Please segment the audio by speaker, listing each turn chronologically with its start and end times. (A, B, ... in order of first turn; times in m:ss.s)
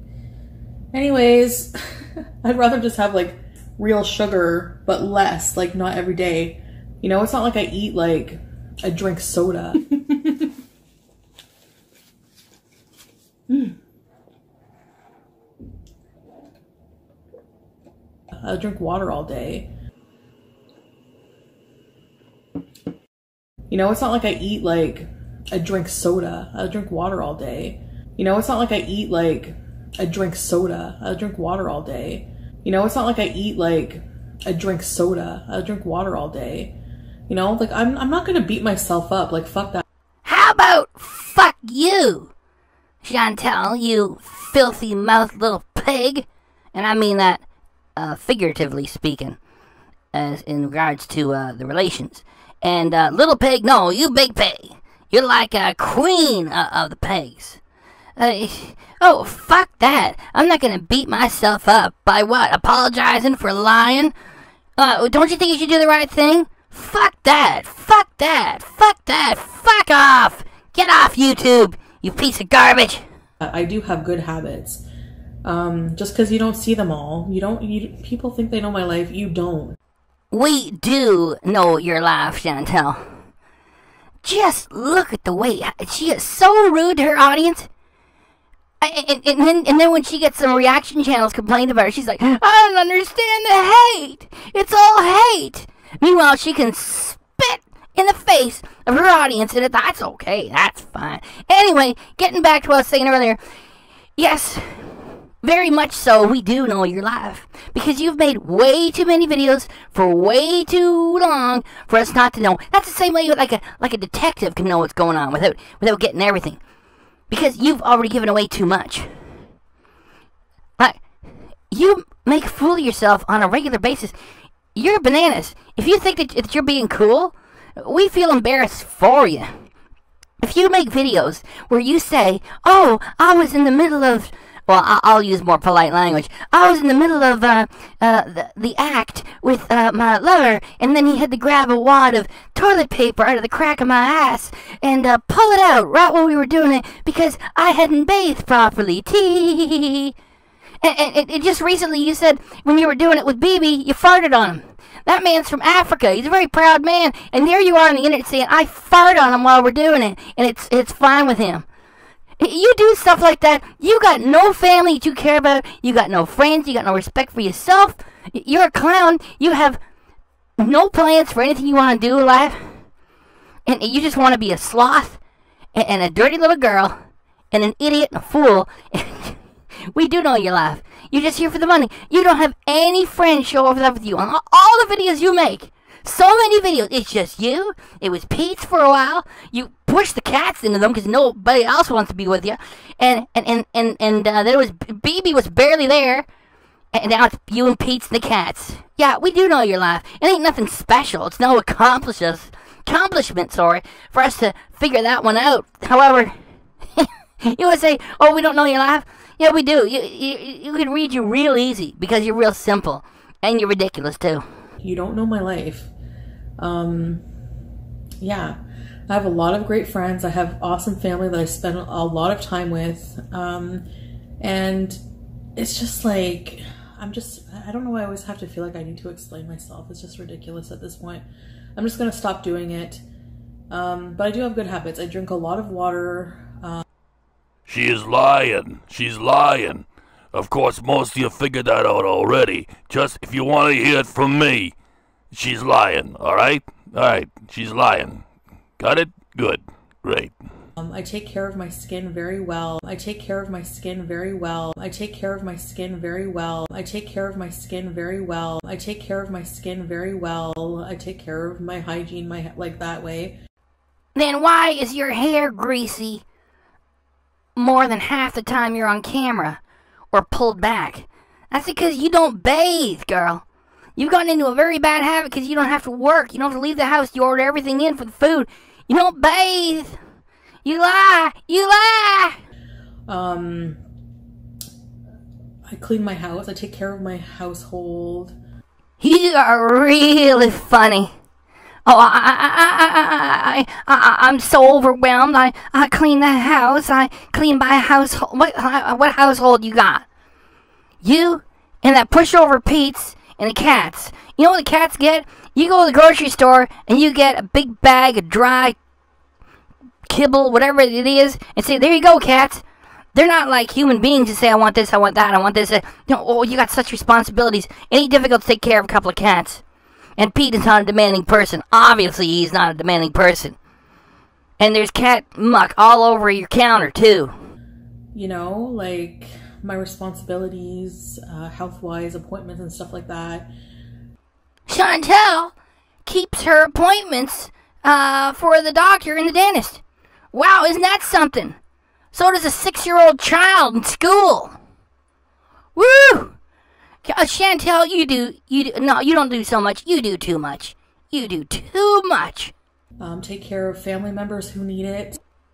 0:00.9-0:10.6 A
0:13.5-0:13.8 A
0:18.4-0:19.7 A
0:23.7-0:36.8 A
0:37.3-0:39.8 A
0:40.2-0:42.3 B
0:43.0-0:47.4 B
0:48.0-0:49.4 B
0:50.1-0:57.6 B
0:58.2-1:04.1 B
1:04.8-1:13.0 B
1:13.4-1:14.8 A
1:15.4-1:19.8 A
1:20.3-1:23.0 B
1:24.2-1:27.7 B
1:28.8-1:43.4 B
1:44.2-1:56.6 B
1:57.3-1:59.1 B
2:01.7-2:04.1 B
2:04.7-2:09.5 B
2:10.4-2:30.1 B
2:30.8-2:41.6 B
2:42.4-2:49.8 B
2:50.6-2:52.6 B
2:53.6-2:55.2 B
2:55.7-2:57.0 B
2:57.5-2:59.4 B
2:59.9-3:16.2 B
3:16.9-3:26.3 B
3:27.0-3:34.4 B
3:34.8-3:35.9 A
3:36.6-3:37.2 A
3:38.2-3:43.9 A
3:44.4-3:45.0 A
3:45.6-3:51.2 A
3:51.8-3:53.0 A
3:53.7-3:56.8 A
3:57.7-4:04.7 C
4:05.3-4:08.2 C
4:08.8-4:10.3 C
4:10.8-4:23.4 A
4:24.1-4:26.2 B
4:27.6-4:29.6 B
4:30.1-4:33.4 B
4:34.0-4:40.0 B
4:40.6-4:42.4 B
4:43.1-4:43.8 A
4:45.7-4:48.4 A
4:49.0-4:51.1 B
4:51.8-5:00.0 B
5:01.0-5:08.8 B
5:10.1-5:12.6 B
5:13.1-5:19.6 B
5:20.2-5:23.6 B
5:24.6-5:27.3 B
5:28.1-5:33.5 A
5:34.7-5:35.5 B
5:36.0-5:39.8 B
5:40.3-5:41.6 B
5:42.1-5:44.5 B
5:45.8-5:46.3 B
5:47.0-5:52.5 B
5:53.0-5:55.2 A